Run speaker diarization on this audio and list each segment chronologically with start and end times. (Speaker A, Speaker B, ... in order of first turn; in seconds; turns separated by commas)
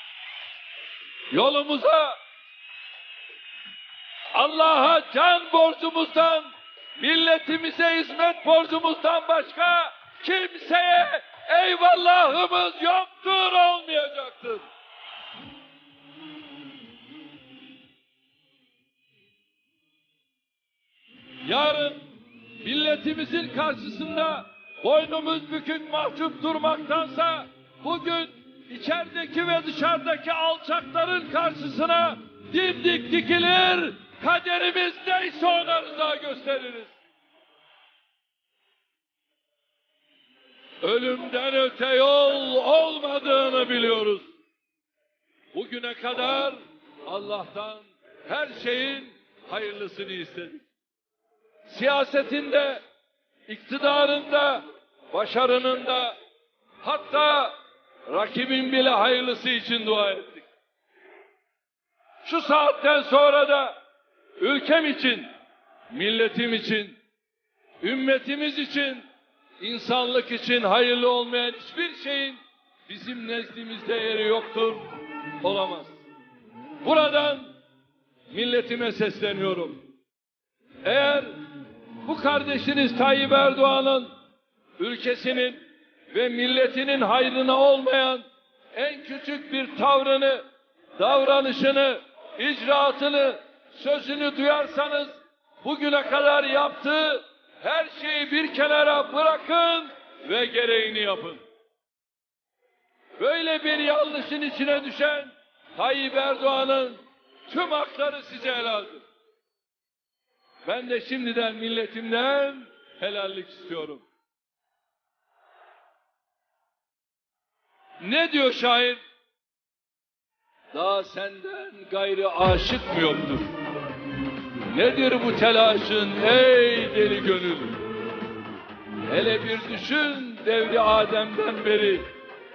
Speaker A: 1.3-2.2, Speaker A: 4.3-14.6, Speaker A: 21.4-22.1, Speaker A: 22.6-36.9, Speaker A: 40.8-44.2, Speaker A: 45.5-50.6, Speaker A: 51.6-52.8, Speaker A: 53.5-56.2, Speaker A: 56.8-57.5, Speaker A: 58.1-60.5, Speaker A: 62.2-63.8, Speaker A: 64.4-65.3, Speaker A: 65.9-67.0, Speaker A: 67.8-69.0, Speaker A: 69.6-74.8, Speaker A: 75.4-76.0, Speaker A: 76.8-77.5, Speaker A: 78.3-79.8, Speaker A: 80.8-81.4, Speaker A: 82.0-84.1, Speaker A: 84.8-90.4, Speaker A: 91.0-101.4, Speaker A: 103.2-109.0, Speaker A: 110.6-114.0, Speaker A: 118.0-119.0, Speaker A: 120.7-123.5, Speaker A: 124.7-127.9, Speaker A: 129.1-132.1